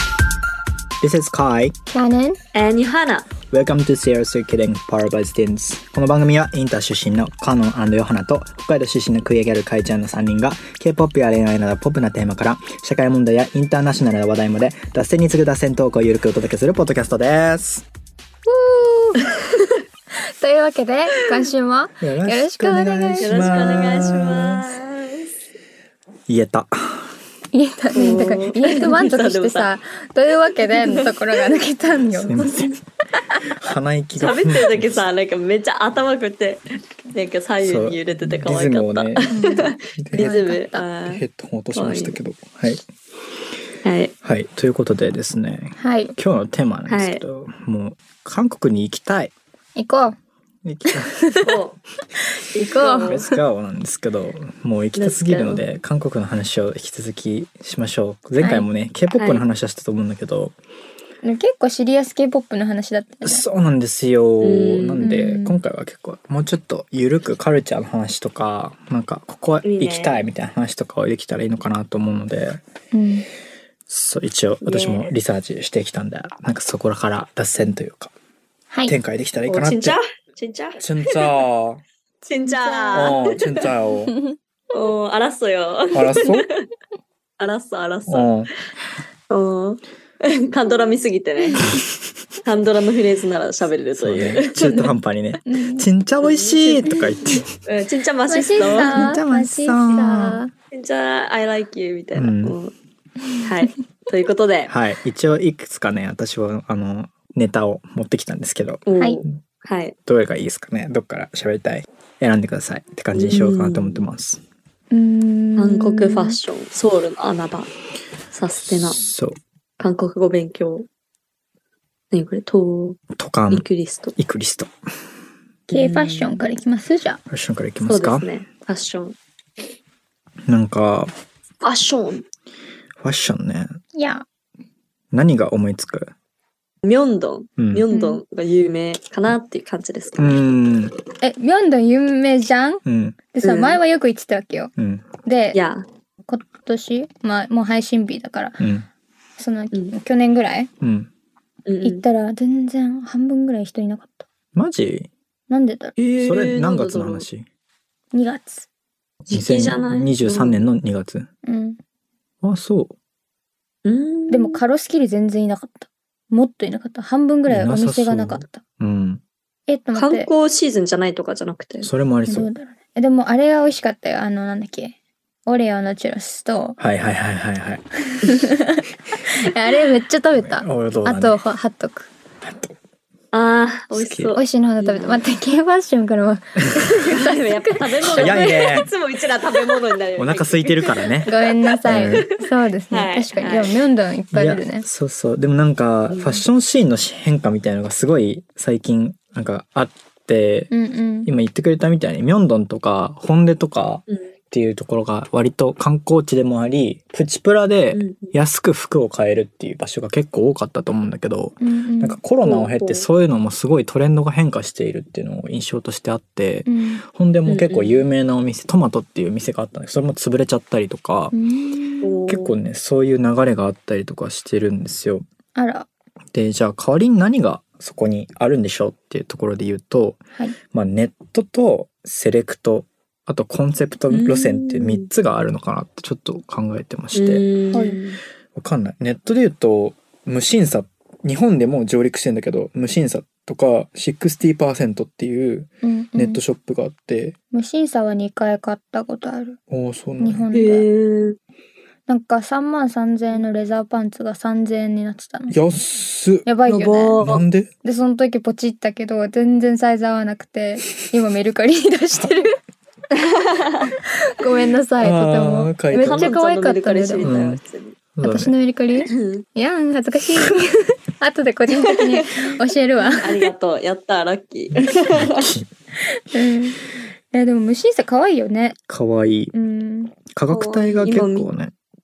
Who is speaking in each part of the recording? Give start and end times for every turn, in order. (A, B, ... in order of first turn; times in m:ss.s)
0:01.0-0:01.8 A
0:01.9-0:02.4 B
0:02.5-0:03.3 C
0:03.4-0:17.9 A
0:18.5-0:19.6 B
0:20.2-0:23.8 B
0:22.0-0:24.7 A
0:23.2-0:25.3 C
0:26.3-0:27.2 A
0:27.5-0:32.4 B
0:28.0-0:29.7 C
0:30.6-0:31.2 C
0:32.1-0:32.7 A
0:32.3-0:32.8 C
0:33.4-0:35.1 A
0:34.2-0:41.2 C
0:37.6-0:40.4 A
0:39.3-0:40.9 B
0:41.1-0:42.8 A
0:41.7-0:42.2 C
0:43.8-0:44.1 C
0:44.2-0:49.3 A
0:45.8-0:46.2 B
0:46.9-0:47.2 C
0:49.8-0:50.2 B
0:50.6-0:51.4 A
0:51.2-0:51.5 B
0:51.4-0:51.8 C
0:52.3-0:53.4 B
0:52.6-0:53.3 C
0:53.0-1:00.6 A
0:55.0-0:55.6 C
0:58.4-0:58.7 B
0:59.2-0:59.4 C
1:01.2-1:03.4 B
1:03.2-1:12.6 A
1:04.4-1:05.0 C
1:05.0-1:05.6 B
1:09.6-1:10.3 C
1:12.9-1:13.3 B
1:13.9-1:18.1 A
1:14.6-1:15.1 C
1:18.7-1:19.0 B
1:18.9-1:20.0 A
1:19.5-1:21.2 C
1:20.8-1:21.8 A
1:22.2-1:23.7 C
1:22.5-1:23.3 B
1:22.9-1:24.2 A
1:24.7-1:26.6 C
1:25.9-1:26.5 A
1:27.4-1:28.4 C
1:28.1-1:28.5 A
1:29.3-1:31.7 C
1:32.4-1:35.0 C
1:34.0-1:37.5 A
1:35.5-1:35.9 B
1:36.2-1:36.9 C
1:36.9-1:37.4 B
1:37.5-1:39.2 C
1:38.3-1:40.5 B
1:38.6-1:40.4 A
1:40.7-1:42.7 C
1:42.2-1:42.6 A
1:43.4-1:44.7 C
1:44.7-1:48.9 A
1:48.9-1:50.0 C
1:50.1-1:54.4 A
1:53.1-1:54.0 C
1:54.9-1:56.4 B
1:55.6-1:57.7 C
1:58.3-1:59.0 C
1:58.7-1:59.4 A
1:59.8-2:00.9 C
2:02.1-2:04.2 C
2:03.2-2:04.7 A
2:05.7-2:06.5 C
2:05.7-2:07.2 B
2:07.3-2:08.3 A
2:07.8-2:09.2 C
2:10.5-2:11.1 A
2:11.6-2:12.2 C
2:13.0-2:13.8 A
2:13.9-2:14.2 B
2:15.1-2:16.1 A
2:16.8-2:20.4 C
2:17.6-2:17.9 A
2:17.9-2:18.2 B
2:20.2-2:21.0 A
2:21.2-2:22.8 B
2:22.8-2:23.2 A
2:23.3-2:24.7 B
2:23.4-2:23.8 C
2:24.8-2:25.1 A
2:25.2-2:25.6 B
2:25.5-2:25.8 C
2:26.3-2:28.7 B
2:28.6-2:28.9 A
2:29.4-2:30.7 B
2:30.8-2:31.1 A
2:31.7-2:32.0 C
2:31.8-2:34.3 B
2:34.6-2:35.1 A
2:35.5-2:35.9 B
2:36.0-2:37.3 C
2:36.2-2:37.5 A
2:38.1-2:38.7 B
2:39.2-2:41.3 A
2:39.3-2:40.7 C
2:41.4-2:41.8 B
2:42.4-2:42.9 A
2:43.8-2:44.6 C
2:44.3-2:48.6 B
2:47.5-2:49.2 A
2:49.7-2:50.3 B
2:50.0-2:51.9 C
2:51.8-2:52.5 A
2:52.3-2:55.0 B
2:55.5-2:56.8 B
2:56.8-2:57.8 A
2:58.2-3:02.1 B
3:00.4-3:01.4 A
3:02.4-3:02.7 A
3:03.3-3:05.3 C
3:03.9-3:04.4 A
3:04.3-3:08.9 B
3:06.9-3:12.3 C
3:08.0-3:08.9 A
3:10.2-3:11.3 A
3:11.3-3:14.8 B
3:11.8-3:12.3 A
3:12.9-3:13.8 C
3:14.3-3:20.7 A
3:16.1-3:16.4 C
3:20.7-3:21.3 B
3:21.2-3:41.3 A
3:27.9-3:28.3 C
3:31.6-3:32.2 B
3:32.4-3:33.1 C
3:36.7-3:37.0 B
3:37.5-3:38.0 C
3:41.3-3:42.3 B
3:42.0-3:42.6 C
3:42.3-3:45.2 A
3:45.6-3:45.9 B
3:46.3-3:50.2 A
3:50.7-3:57.4 A
3:54.1-3:55.1 C
3:57.1-3:58.2 C
3:57.7-3:58.0 B
3:58.6-4:07.4 A
4:05.8-4:06.4 B
4:07.5-4:09.6 B
4:09.7-4:10.5 A
4:10.2-4:10.9 B
4:10.5-4:11.4 C
4:12.1-4:15.6 B
4:15.5-4:16.5 A
4:16.5-4:17.2 B
4:16.7-4:17.4 C
4:17.2-4:17.7 A
4:17.8-4:22.5 B
4:23.2-4:23.9 C
4:24.1-4:27.4 B
4:25.0-4:26.3 A
4:26.0-4:28.0 C
4:27.2-4:27.6 A
4:28.2-4:28.5 A
4:28.2-4:33.5 B
4:29.1-4:29.4 C
4:31.8-4:32.5 C
4:33.1-4:35.5 C
4:34.7-4:35.7 A
4:36.1-4:36.8 B
4:37.3-4:38.8 B
4:38.9-4:39.5 A
4:39.5-4:40.1 B
4:40.3-4:41.7 A
4:40.5-4:41.5 C